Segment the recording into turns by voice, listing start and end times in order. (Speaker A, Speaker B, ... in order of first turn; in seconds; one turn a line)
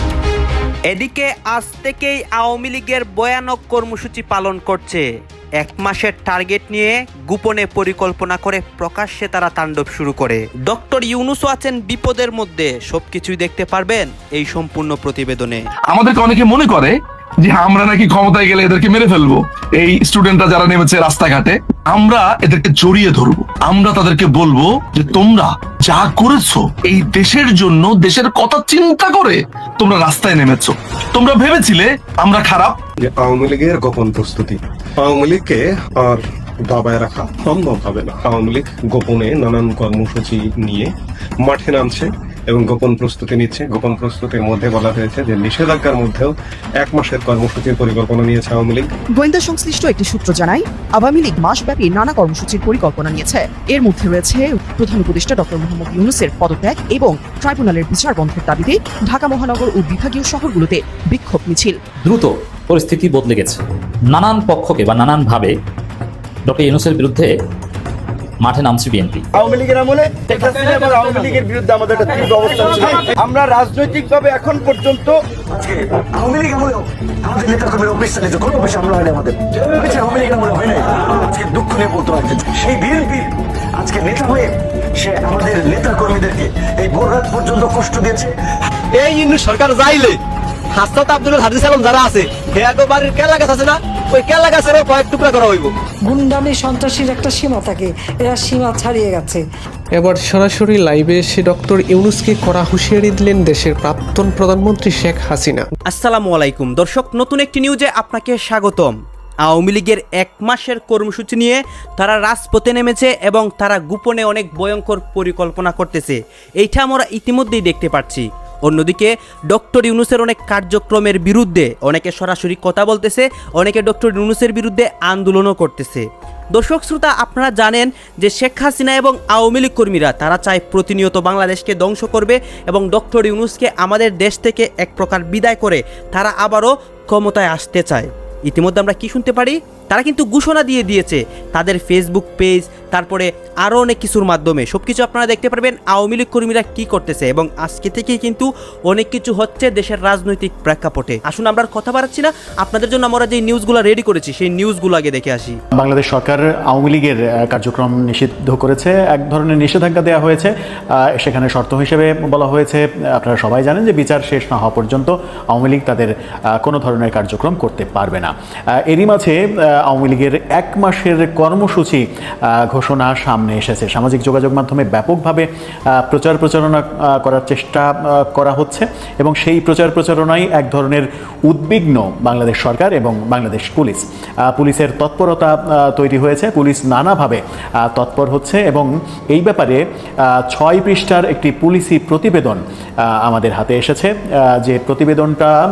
Speaker A: 0.9-5.1
Speaker A: 5.6-15.6
Speaker B: 15.9-32.8
Speaker C: 33.0-48.9
Speaker D: 49.1-61.8
Speaker E: 62.0-65.6
Speaker E: 66.5-67.3
Speaker E: 68.4-69.2
Speaker F: 72.6-73.0
Speaker F: 75.5-88.3
Speaker G: 89.0-90.2
Speaker G: 90.8-95.7
Speaker H: 96.0-99.4
Speaker I: 99.9-105.7
Speaker A: 105.9-109.0
Speaker A: 109.5-155.6
Speaker J: 155.8-168.3
Speaker J: 168.8-195.6